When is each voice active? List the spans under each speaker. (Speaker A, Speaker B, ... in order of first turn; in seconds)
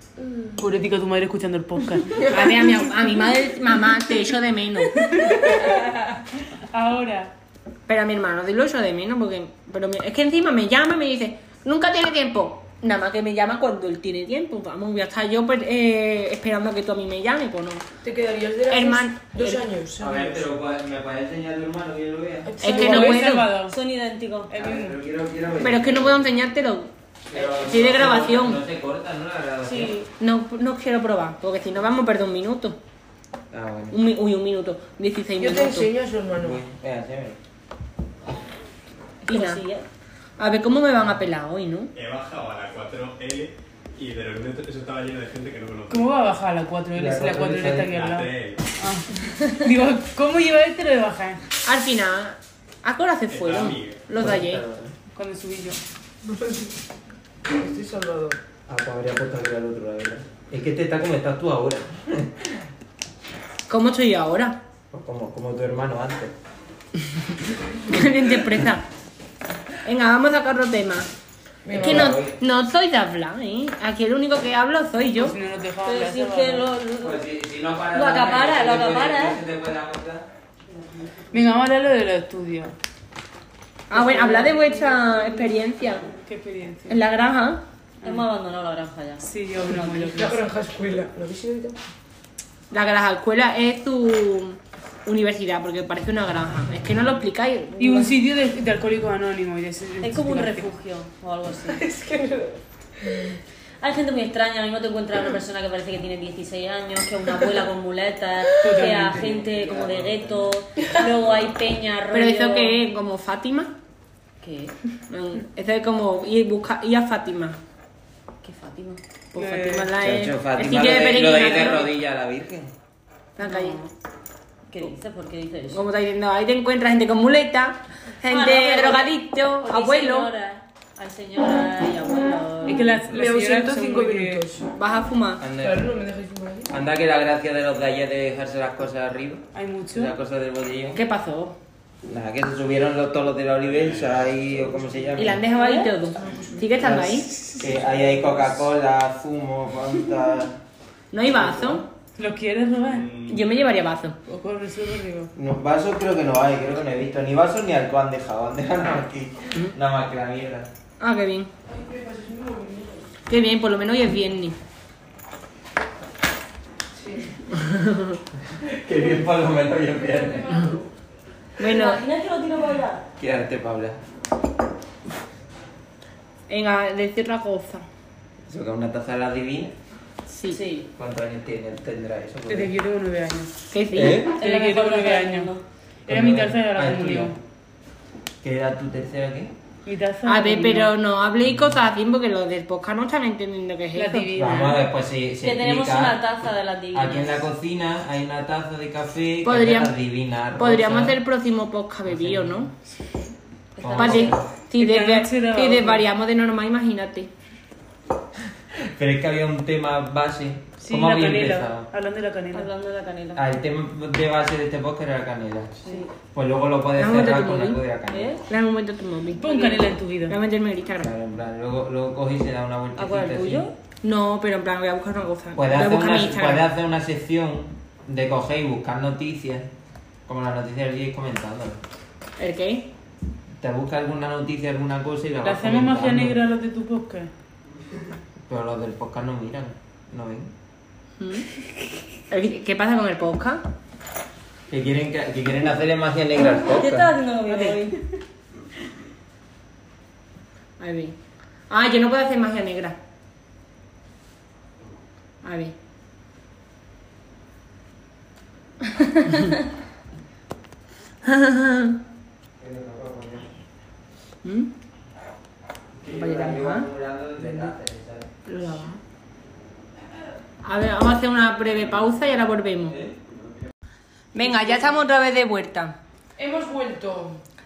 Speaker A: 0.2-0.7, 2.1-2.8, 18.0-20.5, 22.4-23.3, 35.4-36.6, 56.2-56.7, 57.5-58.4, 71.6-72.2, 89.7-91.8, 101.7-103.4, 108.7-109.2, 133.1-134.7, 135.6-136.7, 146.2-146.5, 161.7-163.1, 166.9-167.4, 169.8-170.9, 274.4-274.9, 276.4-277.4
Speaker B: 0.6-2.3, 4.9-5.9, 6.5-7.3, 22.6-23.8, 24.5-24.9, 45.9-51.4, 55.1-55.8, 75.2-76.7, 81.3-82.7, 83.9-85.2, 86.0-87.0, 89.2-90.4, 97.8-100.7, 108.6-109.2, 119.3-119.9, 132.6-134.4, 139.5-140.1, 152.2-153.1, 154.3-155.3, 182.5-183.5, 184.3-185.5, 186.1-187.3, 189.8-190.9, 193.9-194.8, 204.8-206.1, 210.8-212.7, 219.4-220.4, 235.4-237.3
Speaker C: 2.3-5.0, 7.9-17.9, 18.7-19.6, 22.6-23.5, 25.6-28.6, 30.2-32.8, 33.9-35.9, 39.2-39.6, 40.4-41.9, 51.6-54.6, 63.7-64.6, 67.8-68.8, 69.8-71.1, 71.8-75.4, 83.9-86.1, 86.9-87.6, 92.7-98.2, 112.1-113.7, 115.1-117.6, 119.3-121.9, 123.4-123.8, 125.7-130.3, 134.7-135.4, 140.9-141.6, 145.2-147.3, 151.1-151.8, 153.3-154.2, 161.0-161.5, 163.3-164.6, 167.5-168.2, 171.6-172.0, 176.5-177.8, 180.3-180.6, 183.7-184.3, 190.2-194.3, 199.4-199.9, 200.6-202.7, 204.0-207.3, 217.0-217.8, 218.5-219.4, 220.3-221.1, 224.0-226.7, 232.4-232.9, 241.2-241.4, 242.3-243.6, 247.5-247.8, 250.8-251.2, 251.7-253.0, 255.4-255.7, 258.9-259.5, 261.2-262.0, 264.4-264.7, 266.1-266.9, 268.4-269.0, 270.6-273.0, 274.3-275.9
Speaker D: 20.0-22.5, 24.5-26.3, 27.3-30.0, 33.5-34.0, 36.3-37.4, 46.9-48.0, 54.1-54.9, 58.7-62.6, 64.9-66.3, 71.7-72.4, 77.0-80.3, 120.0-122.7, 135.4-135.9, 136.7-141.0, 142.1-145.4, 146.8-150.6, 151.2-151.8, 155.3-160.7, 168.5-170.7, 173.2-174.0, 178.5-179.7, 180.9-182.7, 183.9-184.3, 186.1-187.3, 188.4-189.5, 194.3-196.3, 196.9-201.2, 202.1-202.7, 203.8-204.4, 208.7-211.9, 213.3-215.7, 216.3-218.3, 221.0-223.7, 225.6-229.7, 230.3-231.8, 233.6-236.4, 238.5-240.5, 244.7-247.1, 262.6-263.5, 266.0-268.3, 272.9-273.2
Speaker E: 23.7-24.5, 29.6-30.1, 39.2-39.9, 75.8-77.2, 77.9-79.4, 80.7-81.1, 88.0-89.7, 100.0-101.8, 103.8-112.8, 114.4-114.7, 118.4-119.0, 124.7-125.8, 128.2-133.0, 145.6-145.9, 171.6-173.0, 180.5-180.9, 184.4-185.6, 195.4-197.4, 203.8-204.4, 212.5-213.4, 215.8-216.1, 218.1-218.4, 219.4-219.8, 222.9-223.7, 246.7-248.0
Speaker F: 41.9-46.1, 47.8-48.7, 53.3-54.0, 109.1-110.6, 111.2-111.5, 143.6-144.4, 152.8-153.5